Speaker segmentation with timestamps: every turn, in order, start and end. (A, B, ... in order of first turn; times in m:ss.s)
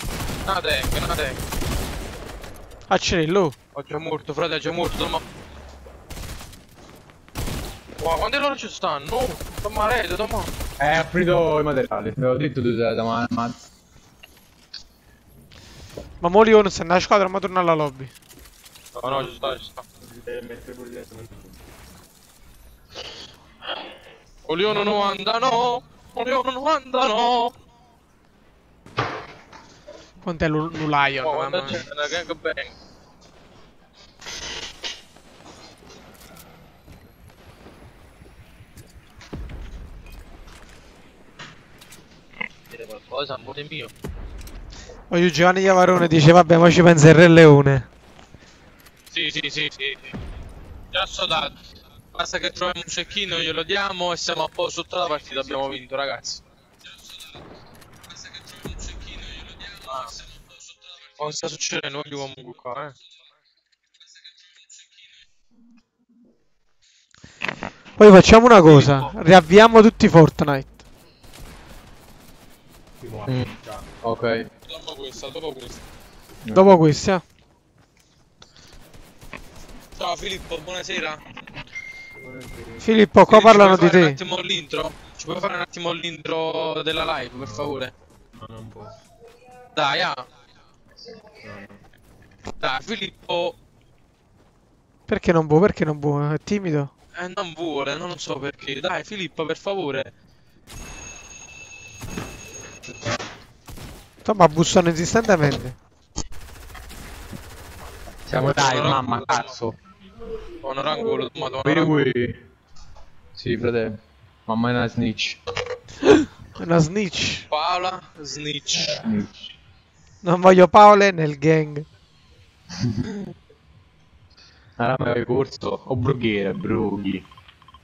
0:00.4-0:01.4 A
0:02.9-0:03.5 B
0:03.7-0:05.2 A
0:08.0-0:10.5 A
0:10.8-0:13.6 C
0:16.2-0:18.1 B
0:19.0-0:19.8 A
0:20.0-0:21.6 D
0:24.4-0:27.5 A
0:30.2-0:31.8 B
0:31.2-0:32.7 A
0:42.7-0:43.9 A
0:45.1-0:47.9 B
0:49.1-0:50.1 A
0:50.9-0:51.6 A
0:52.1-0:56.4 A
0:58.7-1:00.3 A
1:01.2-1:02.9 A
1:08.0-1:10.7 B
1:08.6-1:09.1 A
1:13.0-1:13.8 D
1:13.3-1:14.5 C
1:14.7-1:15.8 A
1:16.4-1:16.8 C
1:16.5-1:17.2 B
1:20.0-1:21.2 A
1:22.2-1:22.8 D
1:22.8-1:24.2 B
1:23.3-1:27.9 A
1:28.3-1:28.9 D
1:29.7-1:30.2 A
1:31.3-1:31.8 D
1:32.6-1:33.6 A
1:35.1-1:36.9 B
1:37.1-1:40.1 A
1:44.2-1:45.8 B
1:48.3-1:49.8 C
1:48.3-1:49.5 A
1:50.6-1:52.1 A
1:51.6-1:52.4 C
1:53.3-1:55.4 C
1:56.6-1:57.4 B
1:57.5-1:59.0 A
1:58.8-1:59.5 C
2:00.2-2:01.8 B
2:04.8-2:07.2 C